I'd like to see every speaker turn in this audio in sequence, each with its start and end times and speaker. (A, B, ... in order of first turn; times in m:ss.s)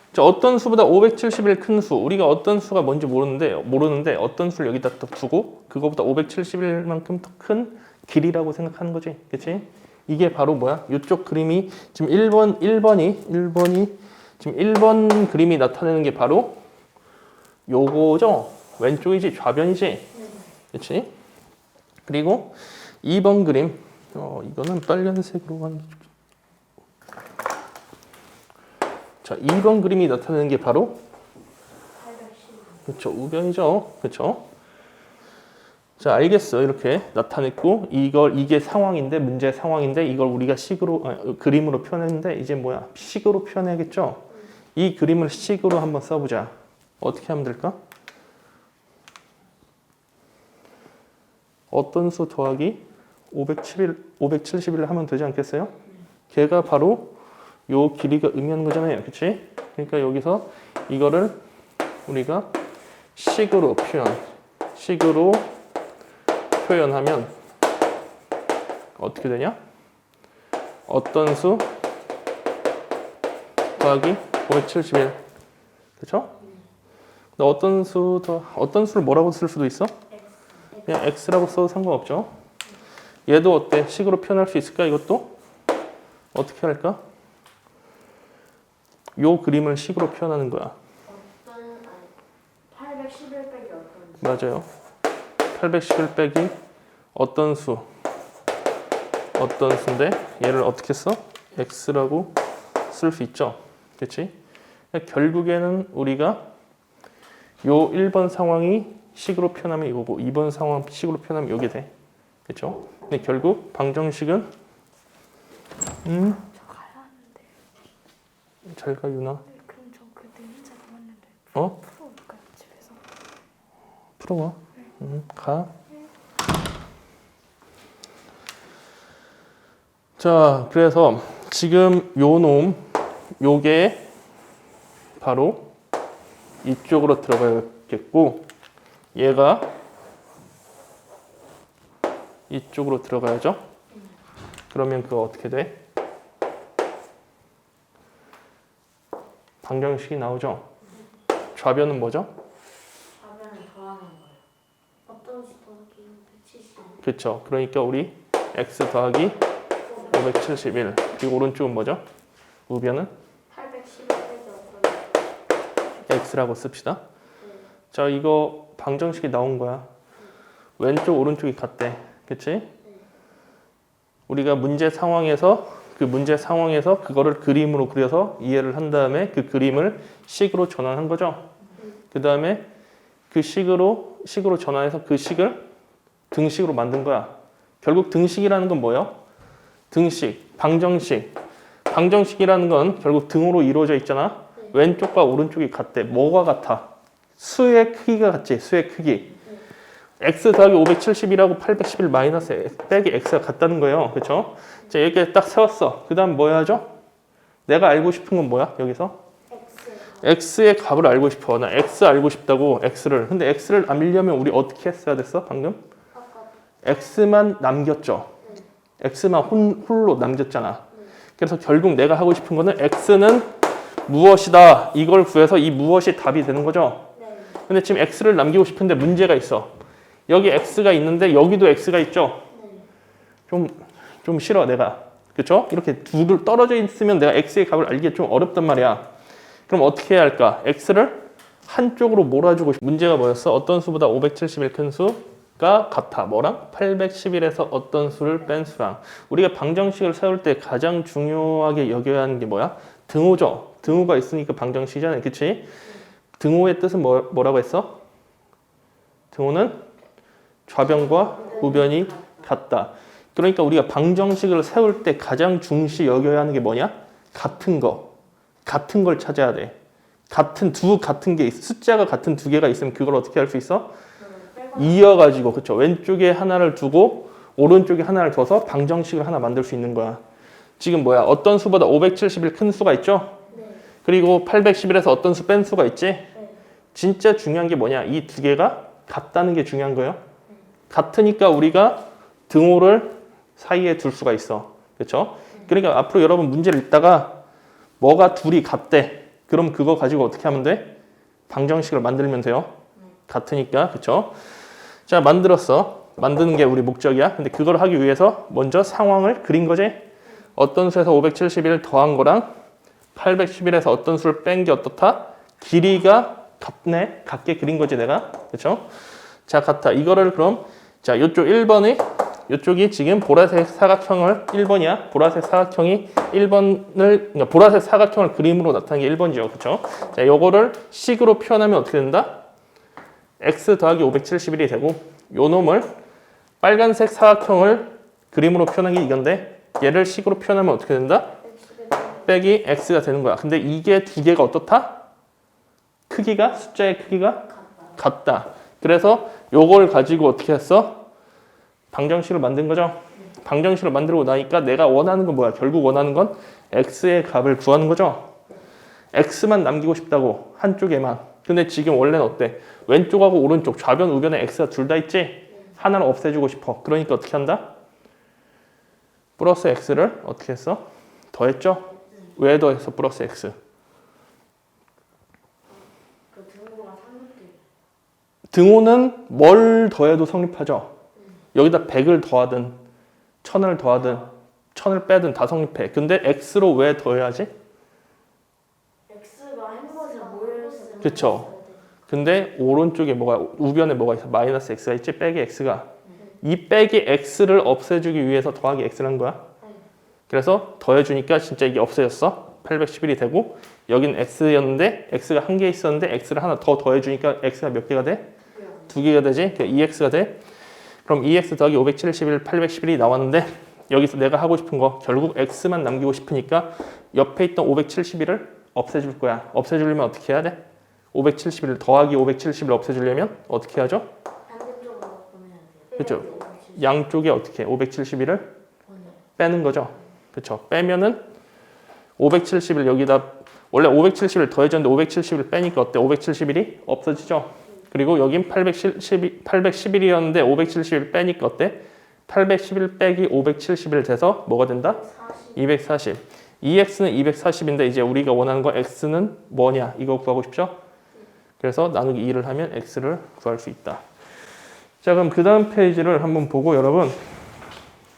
0:00.1-0:16.6 A
0:17.7-0:20.1 A
0:20.1-0:20.5 B
0:20.7-0:21.1 A
0:22.1-0:26.0 A
0:29.2-0:31.0 A
0:32.0-0:32.8 B
0:32.9-0:34.5 A
0:36.0-0:47.8 A
0:51.7-0:55.7 A
0:56.3-0:57.2 A
0:57.7-1:01.4 A
1:02.1-1:02.5 A
1:03.2-1:04.2 A
1:04.8-1:05.5 A
1:06.6-1:07.3 A
1:09.0-1:09.6 A
1:10.9-1:11.7 A
1:13.8-1:15.2 A
1:16.0-1:16.3 A
1:17.4-1:20.0 A
1:20.4-1:21.0 B
1:20.9-1:22.3 A
1:23.3-1:25.4 A
1:26.3-1:27.0 A
1:29.2-1:30.8 A
1:31.1-1:32.1 B
1:32.7-1:34.3 B
1:34.2-1:34.7 A
1:35.5-1:36.6 A
1:37.2-1:37.9 A
1:39.4-1:42.4 A
1:42.9-1:44.3 A
1:44.9-1:46.4 A
1:47.6-1:51.9 A
1:52.5-1:54.5 A
1:56.0-1:56.4 A
1:56.6-1:57.2 C
1:58.7-1:59.4 A
1:59.5-2:02.8 C
2:04.2-2:05.7 A
2:10.2-2:12.8 A
2:13.4-2:14.1 A
2:15.2-2:15.7 A
2:16.6-2:18.5 A
2:19.2-2:19.7 A
2:22.5-2:23.6 A
2:24.7-2:25.8 A
2:29.6-2:30.6 A
2:31.6-2:32.3 A
2:33.2-2:34.4 B
2:35.1-2:37.0 B
2:37.0-2:39.4 A
2:39.8-2:40.4 B
2:40.1-2:42.0 A
2:42.7-2:43.1 A
2:43.5-2:45.1 B
2:46.1-2:47.0 A
2:47.4-2:47.7 B
2:47.9-2:49.9 A
2:50.8-2:52.7 A
2:54.3-3:01.5 A
3:02.1-3:02.7 A
3:03.3-3:05.7 A
3:06.3-3:09.2 A
3:09.9-3:11.4 A
3:11.9-3:19.3 A
3:20.2-3:26.9 A
3:27.7-3:29.2 A
3:29.5-3:30.2 B
3:30.2-3:35.8 A
3:36.1-3:36.5 B
3:36.8-3:38.3 A
3:38.4-3:38.7 B
3:39.0-3:40.8 A
3:41.4-3:43.5 A
3:44.1-3:47.1 A
3:47.2-3:47.6 B
3:47.7-3:49.7 A
3:50.3-3:52.5 A
3:52.5-3:52.9 B
3:53.5-3:59.1 A
3:59.7-4:15.7 A
4:16.4-4:18.0 A
4:19.3-4:19.9 A
4:20.7-4:28.1 A
4:20.8-4:22.4 B
4:28.6-4:29.8 A
4:30.3-4:33.9 A
4:34.2-4:35.2 B
4:34.8-4:40.2 A
4:40.8-4:43.4 A
4:43.5-4:43.8 B
4:44.0-4:46.3 A
4:46.3-4:46.6 B
4:46.9-4:50.2 A
4:50.9-4:57.4 A
4:58.0-5:00.9 A
5:01.5-5:02.7 A
5:03.3-5:04.4 A
5:05.1-5:10.0 A
5:10.6-5:12.5 A
5:13.2-5:18.9 A
5:19.5-5:32.4 A
5:33.4-5:35.9 A
5:36.6-5:41.4 A
5:41.4-5:42.3 B
5:42.2-5:45.0 A
5:46.1-5:51.0 A
5:47.5-5:47.9 B
5:51.9-5:58.3 A
5:59.1-6:07.7 A
6:09.4-6:13.6 A
6:16.3-6:17.6 B
6:18.5-6:20.9 A
6:21.5-6:22.8 A
6:23.4-6:27.5 A
6:29.1-6:31.8 B
6:29.9-6:31.5 C
6:31.0-6:31.5 A
6:32.1-6:35.9 A
6:36.4-6:39.4 A
6:40.3-6:48.3 A
6:48.5-6:48.9 B
6:48.9-6:50.4 A
6:51.0-7:00.6 A
7:01.1-7:04.1 A
7:04.5-7:06.9 B
7:06.0-7:08.5 A
7:08.9-7:09.2 B
7:09.4-7:11.2 A
7:12.2-7:25.0 A
7:24.9-7:25.6 B
7:25.6-7:30.8 A
7:31.6-7:34.0 A
7:35.0-7:37.4 A